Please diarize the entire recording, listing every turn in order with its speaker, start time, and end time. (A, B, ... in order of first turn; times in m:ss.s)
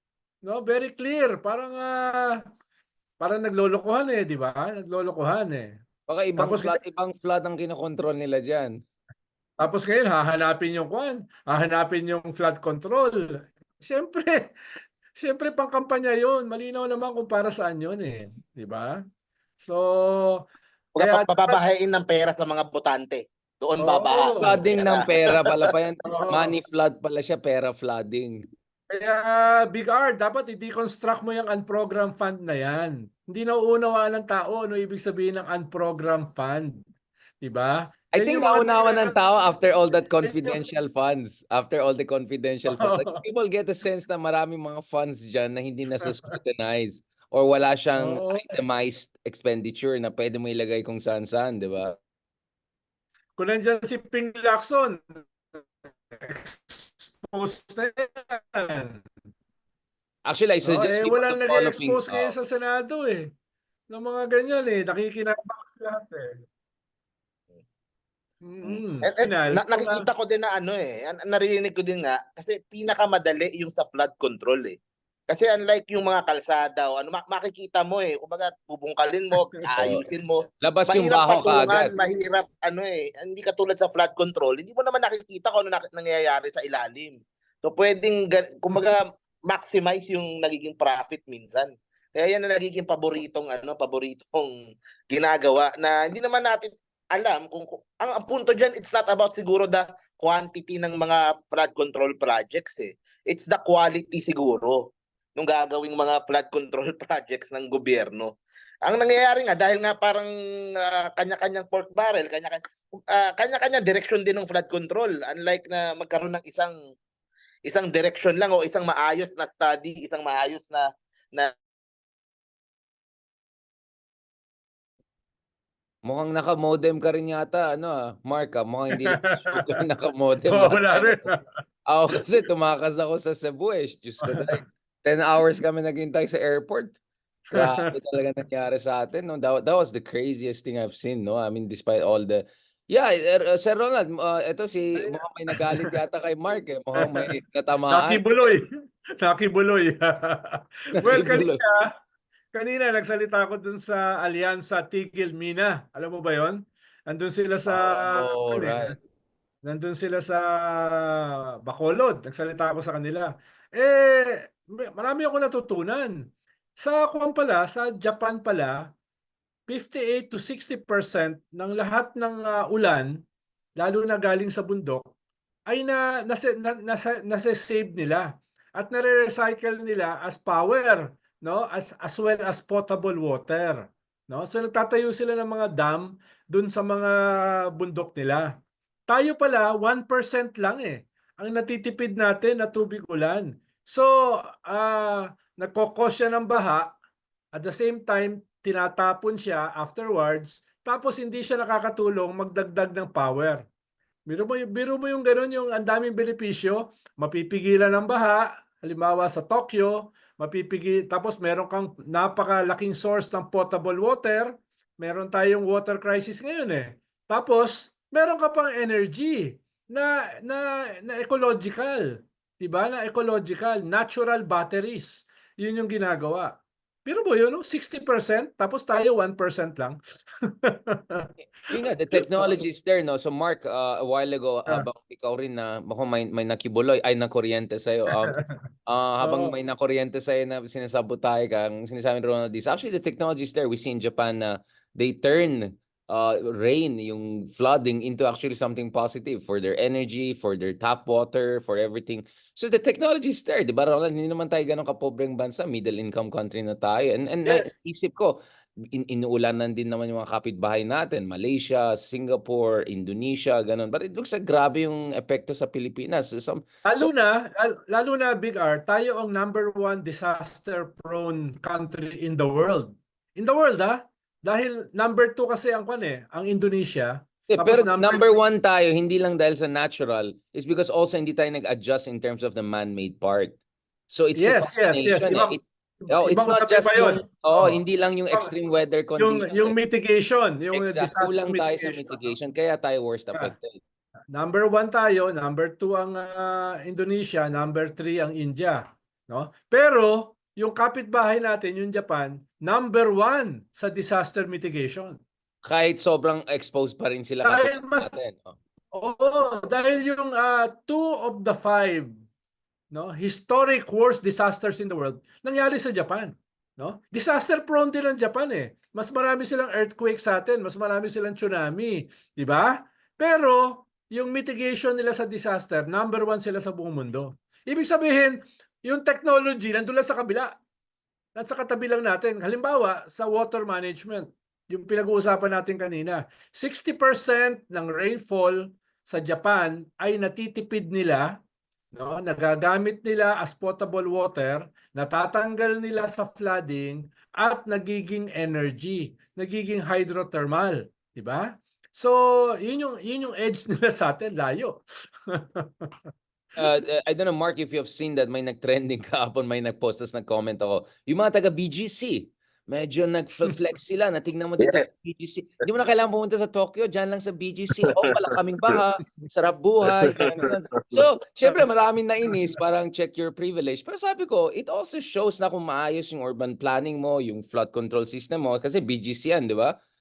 0:00.4-0:02.4 A
0:03.2-0:05.7 A
0:06.1-0:08.8 B
0:06.4-0:06.8 A
0:09.6-0:14.5 A
0:15.2-0:19.0 A
0:19.6-0:20.4 A
0:21.0-0:25.5 C
0:21.0-0:21.6 A
0:23.8-0:24.6 A
0:24.4-0:28.4 B
0:26.0-0:26.5 A
0:28.9-0:36.8 A
0:37.4-0:39.3 A
0:38.1-0:52.0 B
0:39.9-0:40.6 A
0:42.7-0:43.2 A
0:48.0-0:48.6 A
0:53.4-0:59.0 A
1:00.3-1:02.3 B
1:00.6-1:03.3 A
1:03.9-1:06.4 A
1:08.4-1:10.0 A
1:08.6-1:14.8 C
1:15.3-1:34.5 C
1:19.8-1:20.0 B
1:20.6-1:21.9 B
1:35.1-1:44.8 C
1:45.4-1:56.7 C
1:57.6-2:01.5 C
2:06.0-2:11.3 B
2:09.1-2:09.7 A
2:10.5-2:11.4 A
2:11.9-2:17.0 B
2:14.2-2:14.6 A
2:17.5-2:17.9 A
2:17.5-2:28.6 B
2:24.9-2:25.9 A
2:27.0-2:27.3 A
2:27.9-2:28.7 A
2:29.2-2:31.9 A
2:31.0-2:31.6 B
2:32.5-2:38.9 A
2:37.7-2:38.9 B
2:39.6-2:46.2 A
2:46.8-2:48.8 A
2:49.7-2:53.2 A
2:53.8-2:55.0 A
2:55.7-3:08.5 A
3:09.1-3:16.9 A
3:17.5-3:23.6 A
3:24.3-3:46.5 A
3:47.1-3:51.3 A
3:51.7-4:18.4 B
3:52.1-3:52.6 A
3:58.3-3:58.6 A
3:59.2-3:59.5 A
4:18.9-4:27.1 B
4:26.9-4:38.4 A
4:37.5-4:43.6 B
4:44.1-4:49.8 B
4:44.4-4:47.8 A
4:49.2-4:52.3 A
4:50.7-4:53.8 B
4:54.3-5:05.2 A
5:05.6-5:08.6 B
5:07.4-5:08.2 A
5:08.9-5:12.1 A
5:12.9-5:30.5 A
5:31.4-5:41.3 A
5:41.9-5:56.1 A
5:56.6-6:19.8 B
6:07.8-6:08.1 C
6:10.1-6:11.0 C